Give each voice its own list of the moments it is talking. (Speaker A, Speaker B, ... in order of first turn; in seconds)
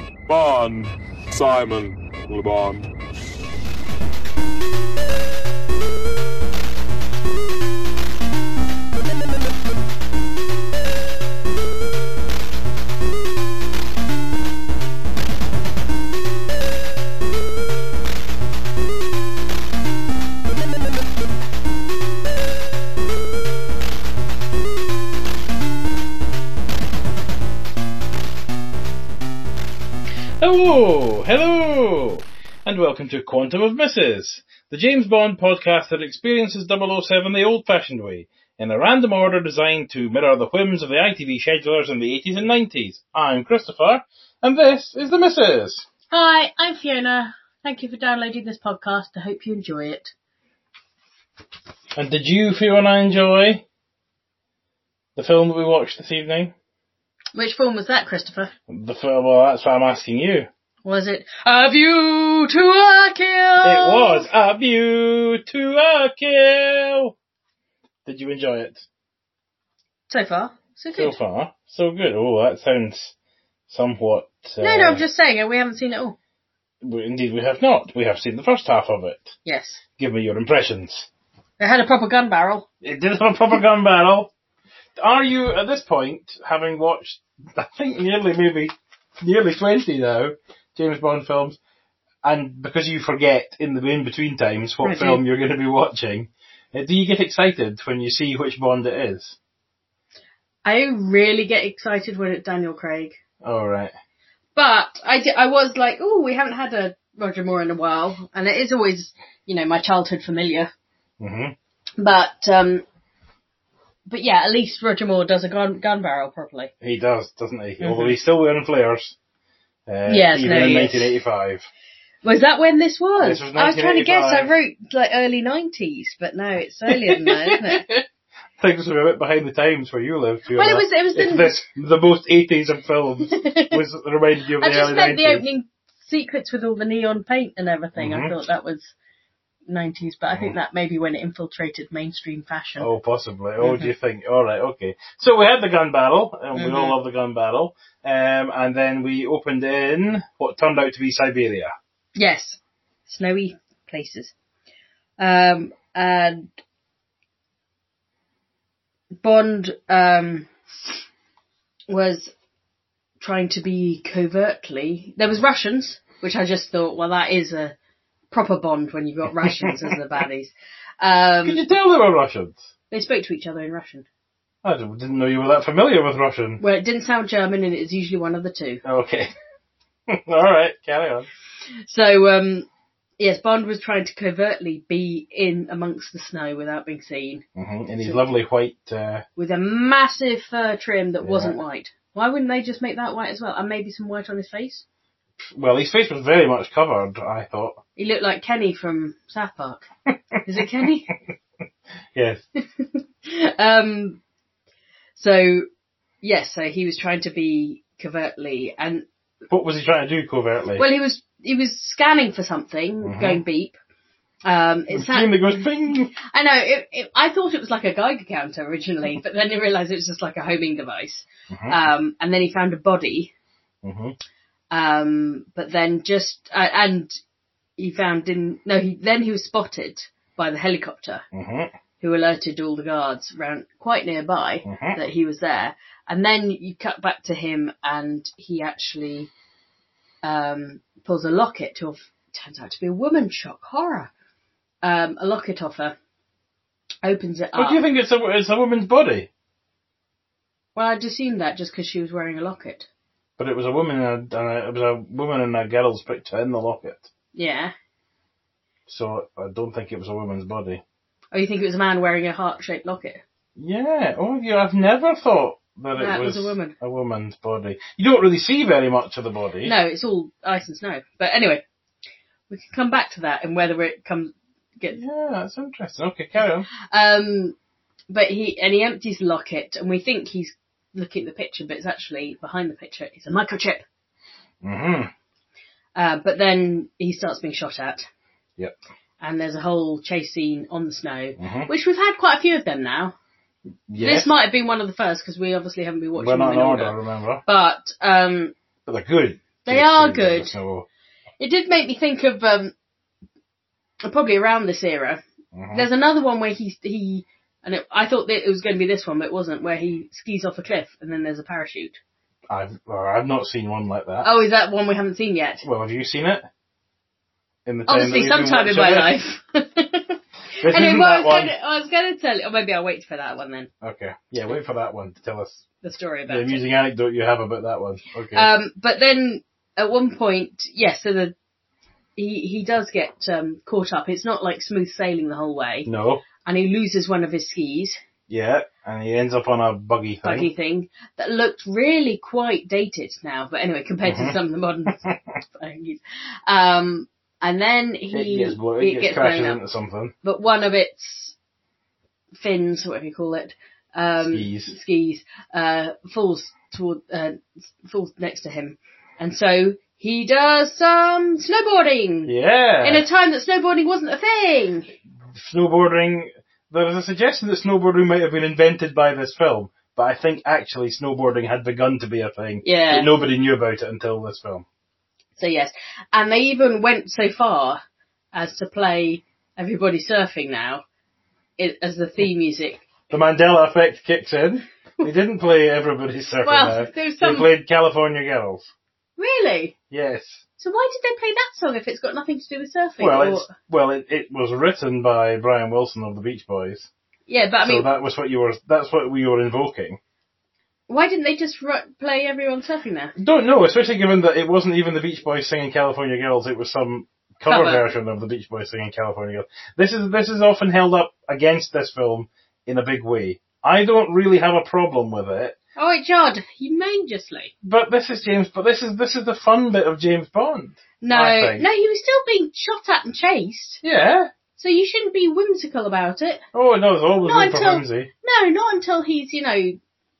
Speaker A: 0.3-2.9
Speaker B: 30.4-45.9, 52.0-53.6, 55.2-56.5, 58.7-60.5, 63.6-67.2, 68.1-68.8, 70.9-73.1, 73.7-75.0, 76.8-79.3, 80.0-81.1, 82.8-84.3, 85.0-91.6, 92.2-99.4, 103.4-103.9, 111.2-111.5, 116.8-119.2, 119.9-121.7, 123.2-124.5, 126.9-127.9, 128.6-135.4, 138.0-138.3, 140.3-140.6, 142.8-151.7, 169.4-169.9, 171.4-172.6, 174.6-176.6, 178.8-179.3, 180.1-181.3, 187.6-189.2, 191.2-191.6, 195.4-197.8, 202.2-202.4, 209.5-210.8, 213.0-213.4, 214.9-216.1, 221.5-221.8, 223.8-224.2, 231.3-231.7, 234.7-235.0, 247.6-249.3, 253.4-257.1, 258.9-260.8, 263.6-269.7, 274.9-276.7, 284.6-285.1, 291.4-291.7, 293.9-294.3, 296.2-297.4, 298.9-300.9, 305.5-305.9, 312.5-314.3, 315.6-316.5, 317.7-319.1, 320.6-321.5, 323.8-325.6, 326.3-328.5, 335.9-336.2, 338.3-340.5, 344.1-344.4, 344.9-345.2, 348.1-350.1, 354.2-354.7, 362.3-363.1, 365.3-374.6, 383.1-388.7, 389.9-390.4, 393.0-396.9, 397.6-400.0, 403.2-415.6, 417.6-421.6, 423.8-424.3, 426.5-428.1
Speaker C: 46.1-50.1, 57.4-58.5, 60.9-64.3, 70.1-71.2, 74.6-76.2, 79.5-79.8, 81.6-82.7, 94.8-95.2, 100.7-103.2, 104.6-110.7, 112.0-112.8, 114.1-116.7, 117.8-118.2, 120.1-121.1, 122.2-127.9, 130.6-131.6, 133.3-133.8, 134.6-138.9, 139.7-142.9, 143.6-143.9, 146.5-147.0, 152.2-154.3, 155.2-156.5, 159.2-161.0, 161.9-162.3, 163.2-167.8, 168.3-171.6, 172.9-174.1, 176.6-178.8, 181.9-182.7, 183.2-187.4, 189.4-194.8, 198.0-199.9, 200.4-201.1, 202.8-204.2, 205.2-205.7, 206.2-209.1, 210.8-213.8, 214.4-215.3, 216.2-223.3, 224.7-227.2, 227.8-231.2, 232.0-239.3, 240.2-244.1, 244.8-246.0, 247.0-247.8, 250.8-252.9, 257.3-257.7, 261.3-263.2, 265.9-266.8, 269.6-271.6, 272.5-275.0, 276.9-277.6, 278.1-283.8, 285.9-288.1, 289.2-293.1, 294.0-298.5, 299.6-300.5, 301.4-302.7, 304.0-305.2, 305.7-312.0, 314.2-315.7, 317.9-323.7, 325.8-326.6, 328.3-331.3, 332.2-335.9, 336.4-338.0, 340.2-345.0, 345.6-349.6, 350.2-351.4, 352.4-365.0, 372.6-373.1, 375.4-377.8, 378.3-380.8, 381.6-382.8, 386.4-387.5, 389.2-389.7, 390.6-393.5, 397.3-397.9, 400.9-403.1, 407.5-407.9, 415.8-417.5, 421.0-423.8, 424.6-426.4, 427.2-429.8